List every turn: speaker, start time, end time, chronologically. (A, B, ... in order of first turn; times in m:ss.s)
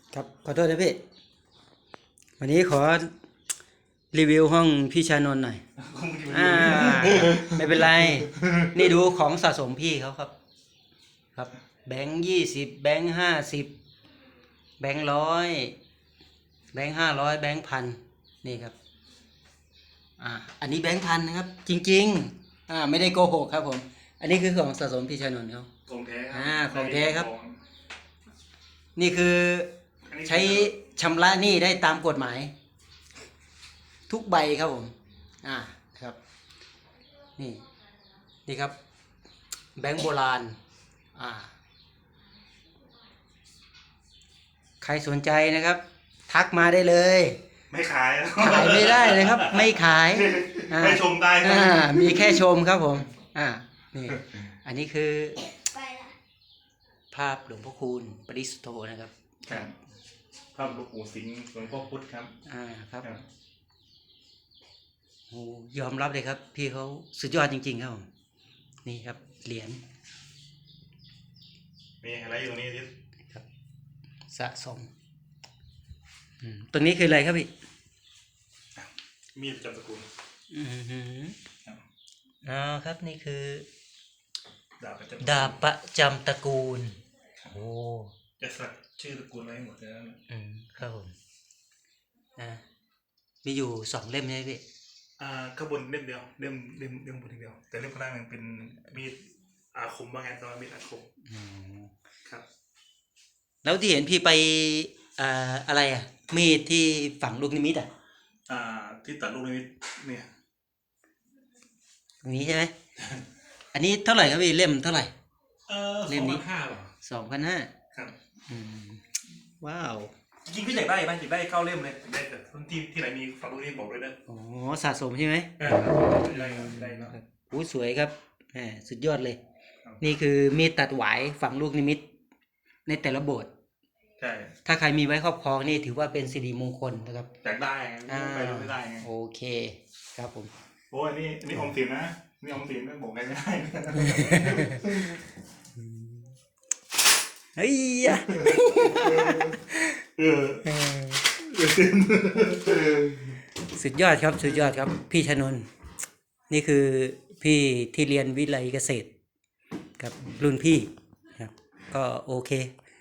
0:00.1-0:01.0 A
0:02.4-0:03.1 A
0:04.1-0:05.6 A
0:05.8-0:08.8 B
0:06.3-0:10.3 A
0:11.4-0:13.7 A
0:14.8-0:15.8 A
0:16.7-0:18.8 A
0:20.2-0:25.7 A
0:25.9-0:27.6 B
0:26.3-0:27.3 A
0:29.0-0:29.7 A
0:30.1-0:30.7 B
0:30.2-0:32.5 A
0:34.1-0:36.2 A
0:37.4-0:37.6 A
0:38.5-0:38.8 A
0:39.8-0:40.6 A
0:41.2-0:41.5 A
0:44.8-0:47.4 A
0:47.7-0:52.5 B
0:48.4-0:55.5 A
0:57.1-0:59.7 A
0:59.5-0:59.7 B
1:00.5-1:02.3 B
1:02.4-1:03.1 A
1:05.3-1:08.1 A
1:08.8-1:09.8 A
1:12.0-1:12.9 B
1:14.3-1:14.9 A
1:16.4-1:17.5 A
1:18.8-1:20.1 B
1:20.5-1:21.4 A
1:22.4-1:23.7 A
1:24.8-1:25.6 B
1:25.2-1:27.0 A
1:27.5-1:28.1 A
1:28.4-1:30.2 B
1:30.3-1:31.1 A
1:32.4-1:32.6 A
1:33.4-1:34.6 A
1:35.2-1:41.1 B
1:41.2-1:41.9 A
1:43.6-1:47.9 A
1:48.5-1:50.3 B
1:52.2-1:52.7 A
1:53.7-1:55.1 A
1:55.7-1:56.9 B
1:56.1-1:56.4 A
1:57.0-1:57.7 A
1:58.5-2:00.1 A
2:00.5-2:04.2 B
2:04.3-2:09.4 A
2:05.6-2:07.2 B
2:10.0-2:12.1 A
2:12.9-2:13.5 A
2:14.2-2:14.5 B
2:14.6-2:17.3 A
2:17.4-2:19.1 B
2:18.1-2:20.5 A
2:20.9-2:25.2 B
2:24.0-2:24.9 A
2:25.8-2:26.3 A
2:27.6-2:30.0 A
2:28.4-2:29.5 B
2:30.2-2:30.6 B
2:30.6-2:31.3 A
2:31.4-2:33.3 B
2:33.7-2:35.7 A
2:36.5-2:39.1 A
2:40.0-2:42.7 A